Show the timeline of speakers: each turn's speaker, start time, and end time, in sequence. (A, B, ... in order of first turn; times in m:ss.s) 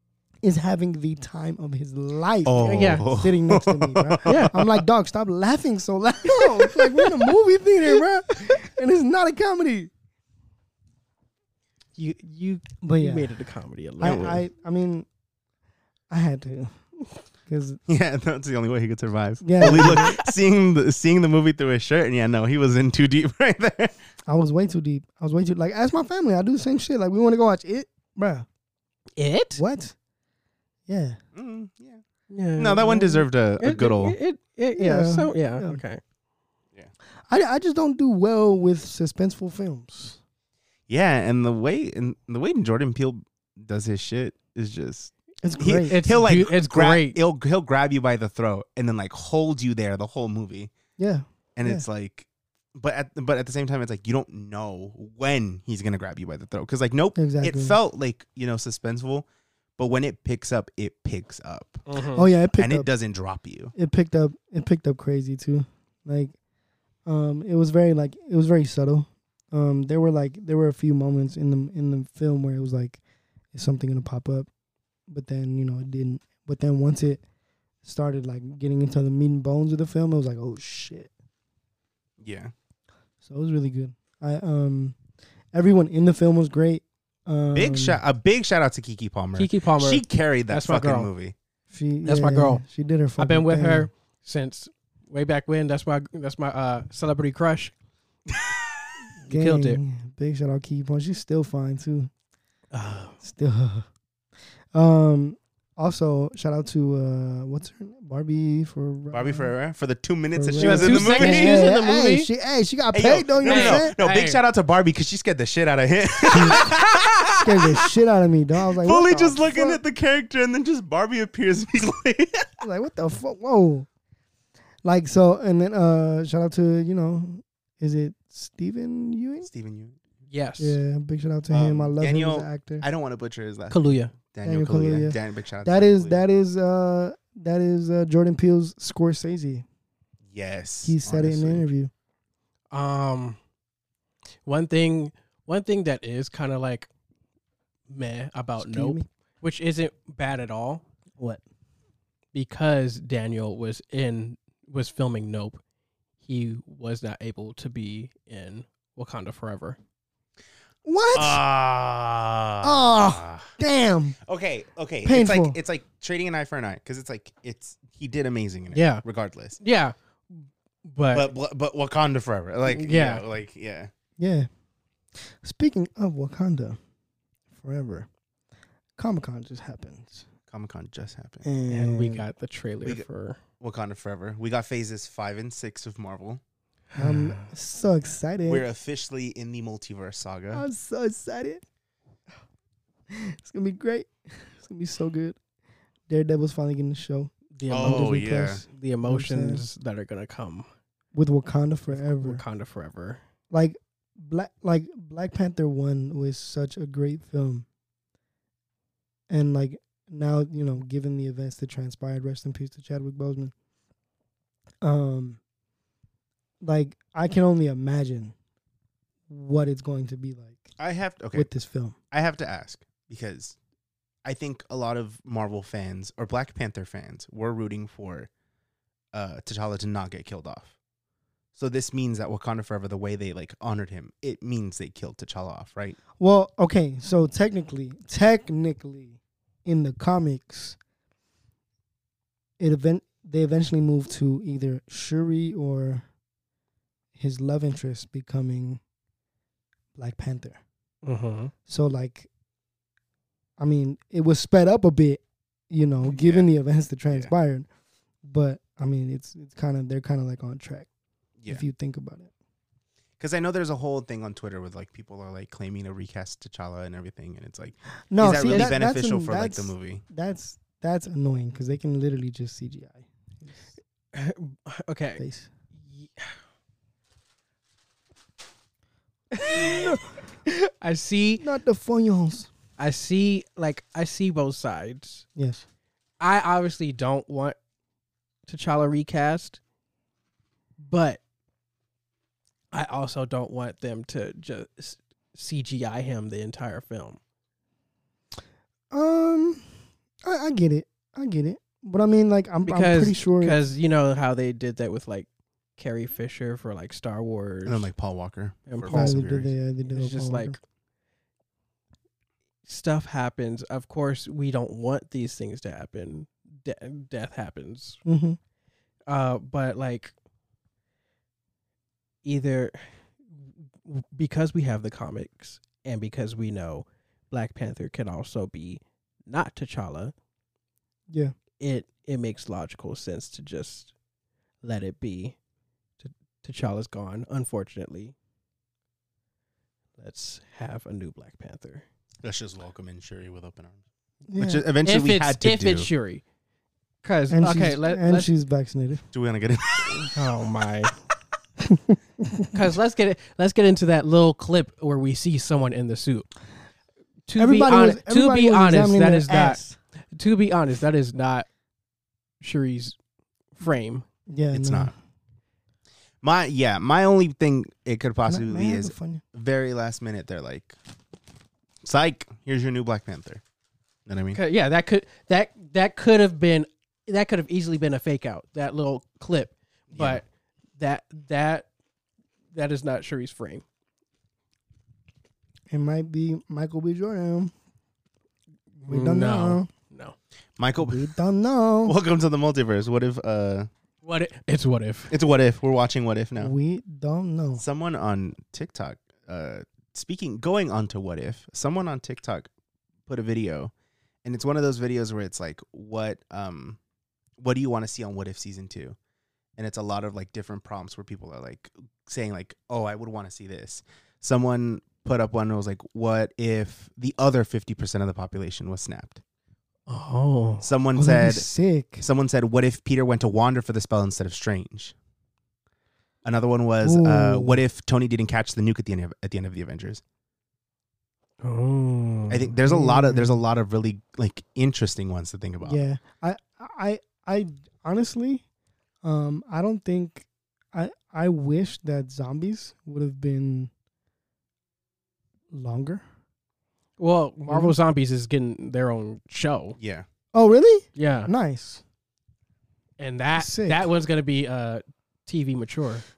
0:00.4-0:09.9 A
0:02.4-0:04.6 B
0:02.6-0:03.0 C
0:04.2-0:04.6 C
0:12.0-0:14.4 C
0:12.8-0:13.3 A
0:14.0-0:15.1 A
0:14.0-0:14.3 B
0:16.1-0:16.8 A
0:17.4-0:17.8 A
0:17.9-0:24.0 B
0:19.4-0:20.2 A
0:19.6-0:20.2 C
0:24.3-0:28.4 A
0:29.2-0:29.6 C
0:29.5-0:29.9 A
0:30.9-0:31.2 A
0:31.3-0:32.0 B
0:32.3-0:36.0 C
0:32.6-0:34.2 B
0:34.8-0:35.8 A
0:37.3-0:40.2 A
0:40.9-0:50.7 B
0:45.4-0:46.0 A
0:45.8-0:47.2 C
0:51.0-0:51.8 A
0:51.6-0:59.2 B
0:57.2-0:57.8 A
0:59.8-1:01.8 B
1:01.9-1:02.2 C
1:02.1-1:02.9 A
1:02.6-1:03.7 B
1:03.7-1:06.3 A
1:07.0-1:13.0 A
1:13.5-1:14.5 A
1:15.1-1:17.2 A
1:17.8-1:21.1 A
1:22.2-1:22.5 B
1:23.2-1:25.0 A
1:25.5-1:28.0 A
1:27.5-1:31.3 B
1:29.4-1:31.1 C
1:31.7-1:33.9 A
1:32.0-1:32.6 C
1:33.2-1:37.7 C
1:39.2-1:39.8 C
1:39.3-1:42.1 A
1:42.7-1:43.1 C
1:43.2-1:43.9 A
1:44.7-1:49.5 A
1:49.1-1:51.6 B
1:50.3-1:53.9 A
1:50.6-1:52.3 C
1:52.9-1:57.4 B
1:53.4-1:54.4 C
1:57.4-1:59.8 A
1:58.8-2:02.5 B
2:02.6-2:03.9 A
2:04.8-2:09.5 A
2:09.4-2:10.0 B
2:10.3-2:10.8 C
2:10.6-2:12.8 A
2:11.5-2:16.2 B
2:13.7-2:14.1 C
2:14.4-2:19.6 A
2:20.3-2:21.7 B
2:20.8-2:21.9 A
2:22.7-2:23.4 C
2:24.4-2:26.9 C
2:27.9-2:30.8 C
2:28.6-2:29.0 A
2:32.3-2:35.6 C
2:36.2-2:39.8 C
2:40.8-2:41.4 A
2:41.1-2:43.5 B
2:42.6-2:44.2 A
2:44.2-2:49.6 B
2:45.0-2:45.6 A
2:48.7-2:49.0 C
2:49.6-2:49.9 C
2:50.8-2:51.3 C
2:51.1-2:53.9 B
2:52.6-2:53.2 C
2:54.2-2:54.5 A
2:55.2-2:56.8 A
2:57.6-2:58.1 A
2:59.0-3:00.2 A
3:00.5-3:01.4 B
3:01.4-3:02.3 A
3:01.7-3:03.4 C
3:03.6-3:06.4 B
3:06.9-3:07.5 C
3:07.0-3:08.6 A
3:08.4-3:10.6 B
3:10.5-3:11.6 A
3:13.1-3:15.4 A
3:16.1-3:19.6 A
3:17.5-3:20.7 C
3:17.7-3:18.6 B
3:21.1-3:22.4 A
3:21.9-3:23.2 C
3:23.5-3:27.6 A
3:29.3-3:33.5 A
3:34.8-3:35.4 A
3:36.6-3:38.3 A
3:39.3-3:40.7 A
3:40.8-3:41.5 B
3:41.3-3:42.0 A
3:42.1-3:43.6 B
3:44.2-3:48.3 B
3:49.1-3:50.7 B
3:51.6-3:56.0 B
3:56.2-4:00.8 A
4:02.6-4:06.0 A
4:07.1-4:08.8 A
4:09.9-4:10.6 A
4:11.0-4:11.5 C
4:11.7-4:12.3 A
4:13.6-4:17.7 A
4:16.0-4:16.5 B
4:18.2-4:20.9 A
4:21.5-4:22.3 A
4:23.2-4:30.0 B
4:28.1-4:33.5 A
4:28.4-4:28.7 C
4:34.1-4:35.2 C
4:35.2-4:35.5 A
4:35.8-4:36.3 C
4:39.3-4:40.0 C
4:39.6-4:40.0 A
4:40.8-4:41.4 C
4:41.4-4:42.5 A
4:42.8-4:45.2 C
4:45.4-4:45.6 A
4:46.2-4:47.6 C
4:48.5-4:49.6 C
4:50.8-4:51.2 C
4:52.7-4:57.2 C
4:58.9-4:59.7 A
5:00.2-5:03.6 A
5:02.6-5:07.9 C
5:07.6-5:09.5 B
5:08.7-5:09.2 C
5:08.9-5:10.6 A
5:09.9-5:10.6 C
5:12.7-5:18.0 C
5:18.0-5:18.4 A
5:19.1-5:20.1 C
5:22.2-5:23.0 C
5:23.8-5:30.1 C
5:31.1-5:31.3 A
5:31.6-5:33.9 C
5:34.6-5:35.4 C
5:36.0-5:38.1 C
5:40.0-5:41.8 C
5:42.2-5:43.8 B
5:44.3-5:44.6 A
5:44.3-5:45.9 B
5:44.8-5:46.2 C
5:47.0-5:48.3 C
5:47.3-5:49.0 A
5:49.1-5:50.2 B
5:50.1-5:50.9 C
5:51.6-5:52.6 A
5:52.5-5:56.3 C
5:57.3-5:59.6 C
5:57.4-5:59.8 A
6:00.1-6:01.4 C
6:02.4-6:02.9 C
6:03.6-6:04.0 C
6:04.3-6:04.9 A
6:04.5-6:04.9 B
6:06.2-6:10.8 B
6:08.3-6:09.2 A
6:11.8-6:13.4 B
6:14.1-6:14.4 B
6:14.3-6:20.2 C
6:19.9-6:20.2 B
6:20.8-6:21.7 C
6:22.5-6:23.6 C
6:25.7-6:27.5 A
6:28.8-6:29.7 A
6:28.8-6:30.1 C
6:30.6-6:31.0 B
6:30.8-6:31.9 A
6:31.8-6:33.7 B
6:34.0-6:35.1 C
6:35.1-6:36.5 B
6:36.4-6:37.6 A
6:37.6-6:42.5 B
6:43.1-6:43.7 B
6:44.2-6:46.8 B
6:47.4-6:49.0 B
6:49.6-6:59.2 B
6:59.9-7:00.7 C
7:00.6-7:01.4 B
7:01.0-7:02.0 A
7:02.0-7:04.9 B
7:06.2-7:10.0 B
7:06.8-7:07.6 A
7:11.4-7:12.5 C
7:12.3-7:15.8 B
7:12.6-7:13.4 A
7:15.6-7:18.4 A
7:19.0-7:23.7 A
7:25.5-7:26.0 A
7:27.0-7:29.8 C
7:27.5-7:27.8 A
7:29.8-7:30.0 B
7:30.3-7:31.8 A
7:31.0-7:31.3 C
7:33.0-7:36.0 C
7:33.4-7:33.8 A